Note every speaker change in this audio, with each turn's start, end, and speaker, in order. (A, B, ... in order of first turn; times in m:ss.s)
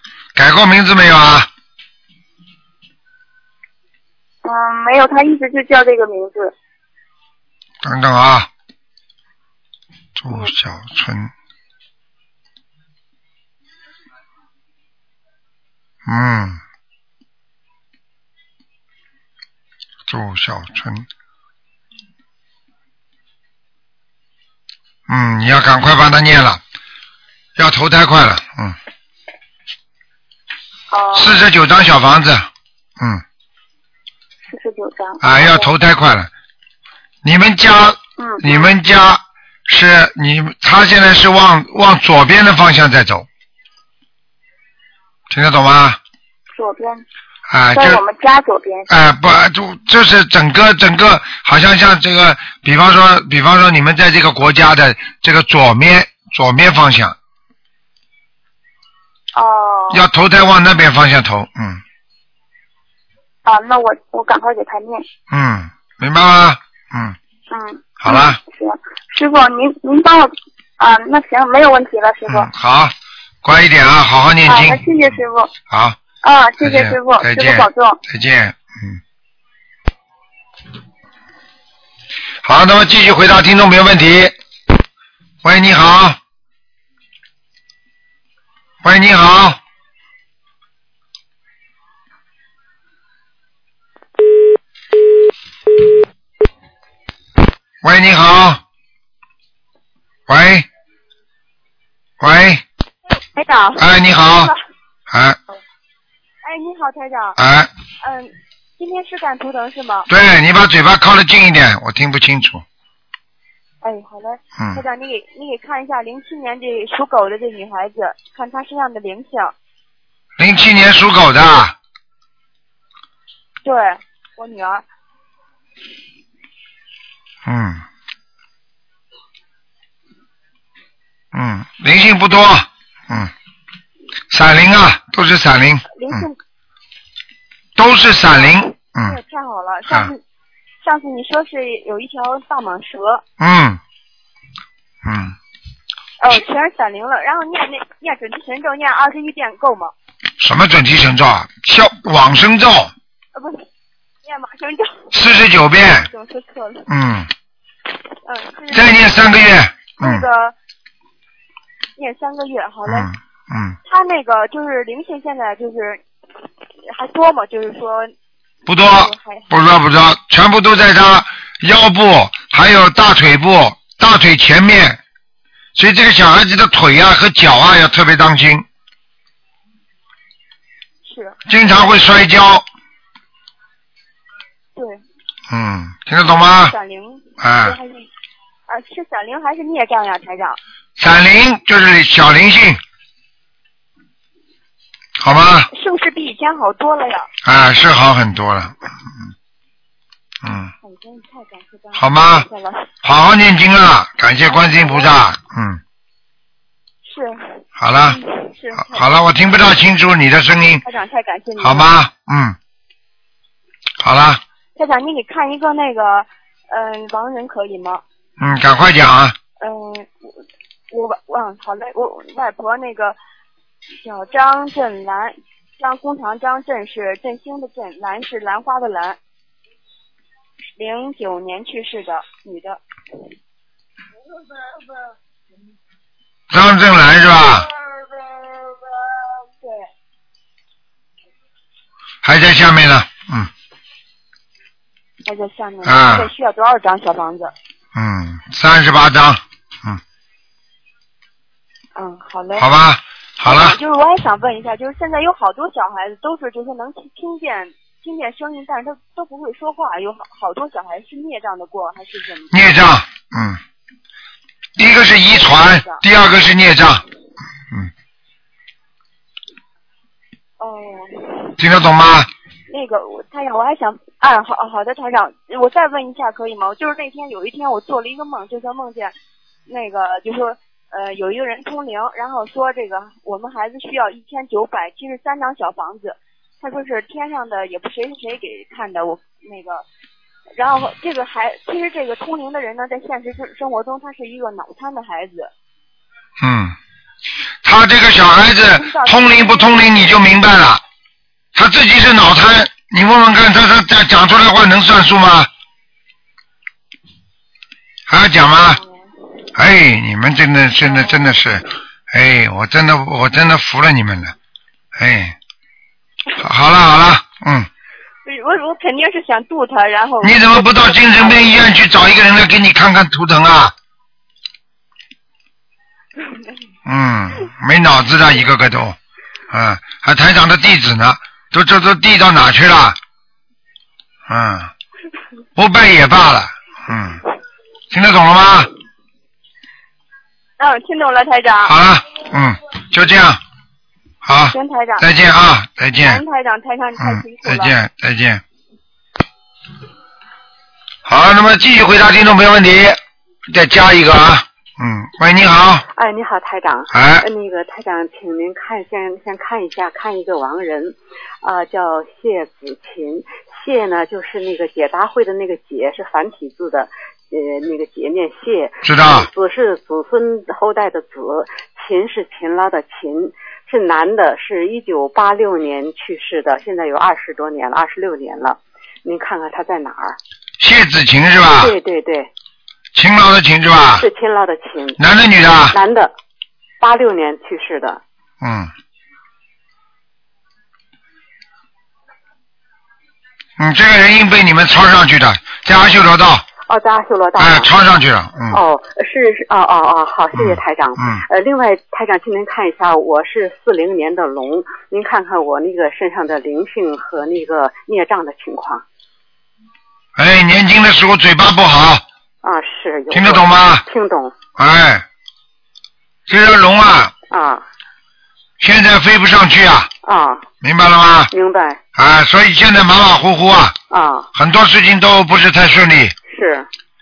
0:00.3-0:01.5 A
0:04.4-0:06.5 B
0:07.8-0:08.5 A
0:10.2-0:11.3 A
0:16.0-0:16.6 A
0:20.1-0:21.1 A
0:25.1-0:26.6 A
0:27.6-0:28.8 A
0:30.9-0:31.3 B
0:31.1-0:32.5 A
0:34.4-0:35.7 B
0:35.2-0:36.3 A
0:37.2-0:43.2 A
0:38.2-0:38.7 B
0:45.3-0:46.0 A
0:46.5-0:47.0 B
0:47.5-0:48.0 A
0:47.7-0:48.9 B
0:48.9-0:57.2 A
0:59.3-1:00.0 B
0:59.9-1:01.8 A
1:03.4-1:05.0 B
1:05.3-1:07.2 A
1:07.5-1:12.5 B
1:08.0-1:08.4 A
1:12.3-1:14.9 A
1:14.4-1:15.5 B
1:15.7-1:16.0 A
1:16.2-1:18.0 B
1:16.6-1:19.0 A
1:22.4-1:24.3 A
1:25.4-1:26.2 A
1:28.8-1:29.6 A
1:37.8-1:38.6 A
1:40.3-1:40.7 A
1:42.2-1:42.6 A
1:43.4-1:44.6 C
1:43.8-1:44.5 A
1:45.1-1:45.4 A
1:46.4-1:47.4 C
1:47.4-1:47.7 A
1:48.0-1:50.1 C
1:50.1-1:52.6 A
1:53.8-1:59.5 C
1:54.6-1:54.8 A
2:00.4-2:01.7 A
2:03.6-2:04.8 C
2:07.4-2:07.8 A
2:11.3-2:13.3 A
2:14.3-2:16.2 A
2:15.9-2:16.4 C
2:17.8-2:19.2 A
2:18.3-2:20.2 C
2:20.8-2:23.2 C
2:23.4-2:23.8 A
2:25.0-2:25.3 A
2:26.2-2:29.9 C
2:30.4-2:32.9 A
2:33.3-2:33.6 C
2:34.2-2:35.1 C
2:35.1-2:36.1 A
2:35.9-2:36.9 C
2:36.9-2:37.3 A
2:38.2-2:39.1 C
2:38.7-2:40.2 A
2:40.0-2:40.5 C
2:42.0-2:43.1 C
2:42.8-2:43.8 A
2:43.8-2:46.0 C
2:46.9-2:48.1 C
2:48.7-2:55.0 A
2:48.7-2:49.5 C
2:55.7-2:58.6 A
3:01.0-3:01.4 C
3:01.5-3:02.6 A
3:04.8-3:05.0 C
3:05.5-3:06.7 A
3:06.2-3:08.1 C
3:07.4-3:07.8 A
3:08.7-3:10.6 C
3:11.0-3:12.8 A
3:15.2-3:15.7 A
3:15.7-3:17.3 C
3:17.4-3:19.0 A
3:20.4-3:20.7 A
3:20.8-3:22.9 C
3:22.0-3:22.5 A
3:23.0-3:25.8 A
3:24.4-3:25.2 C
3:27.0-3:29.5 C
3:27.8-3:28.2 A
3:28.8-3:30.8 A
3:30.8-3:31.9 C
3:31.6-3:32.6 A
3:34.0-3:34.4 A
3:34.8-3:38.0 C
3:38.4-3:39.4 A
3:39.6-3:40.2 C
3:40.9-3:43.2 C
3:44.0-3:49.2 C
3:50.8-3:52.8 C
3:56.5-3:57.7 A
4:02.2-4:03.5 A
4:05.2-4:07.5 C
4:05.8-4:06.3 A
4:07.9-4:10.0 A
4:12.0-4:12.7 C
4:12.6-4:13.8 A
4:13.4-4:22.7 C
4:22.5-4:23.6 A
4:24.8-4:27.0 A
4:25.3-4:26.0 C
4:30.6-4:31.6 C
4:31.6-4:32.3 A
4:32.7-4:39.1 C
4:39.7-4:49.8 C
4:50.6-4:55.5 C
4:56.4-4:56.8 A
4:57.6-5:00.8 A
4:58.8-5:00.0 C
5:01.5-5:05.5 A
5:08.1-5:08.8 A
5:08.4-5:08.9 C
5:09.5-5:14.3 A
5:10.8-5:11.3 C
5:15.0-5:15.4 A
5:16.4-5:17.7 A
5:18.2-5:21.8 C
5:20.2-5:23.7 A
5:26.8-5:29.0 A
5:29.5-5:33.0 A
5:34.3-5:34.7 A
5:35.6-5:37.2 A
5:37.9-5:38.7 A
5:40.6-5:41.7 C
5:41.6-5:43.4 A
5:44.2-5:46.2 A
5:44.5-5:45.1 C
5:46.0-5:47.7 C
5:47.0-5:48.4 A
5:51.0-5:55.8 A
5:55.9-6:20.2 D
5:56.9-5:57.3 A
6:08.8-6:09.3 A
6:20.6-6:21.7 A
6:21.6-6:22.3 D
6:22.9-6:24.1 A
6:24.0-6:25.0 D
6:25.0-6:25.8 A
6:25.7-6:26.1 D
6:26.8-6:28.0 D
6:28.4-6:28.7 A
6:33.6-6:36.4 A
6:36.6-6:37.7 D
6:37.4-6:38.6 A
6:38.5-6:48.8 D
6:40.3-6:41.2 A
6:50.2-6:52.0 A
6:52.4-6:54.4 D
6:53.1-6:53.8 A
6:54.6-6:55.0 A
6:56.3-6:57.1 A
6:57.3-6:57.6 D
6:58.6-6:59.9 A
7:00.0-7:00.4 D
7:00.6-7:01.3 A
7:01.3-7:01.8 D
7:02.0-7:03.8 A
7:03.9-7:04.3 D
7:04.3-7:06.1 A
7:06.3-7:06.7 D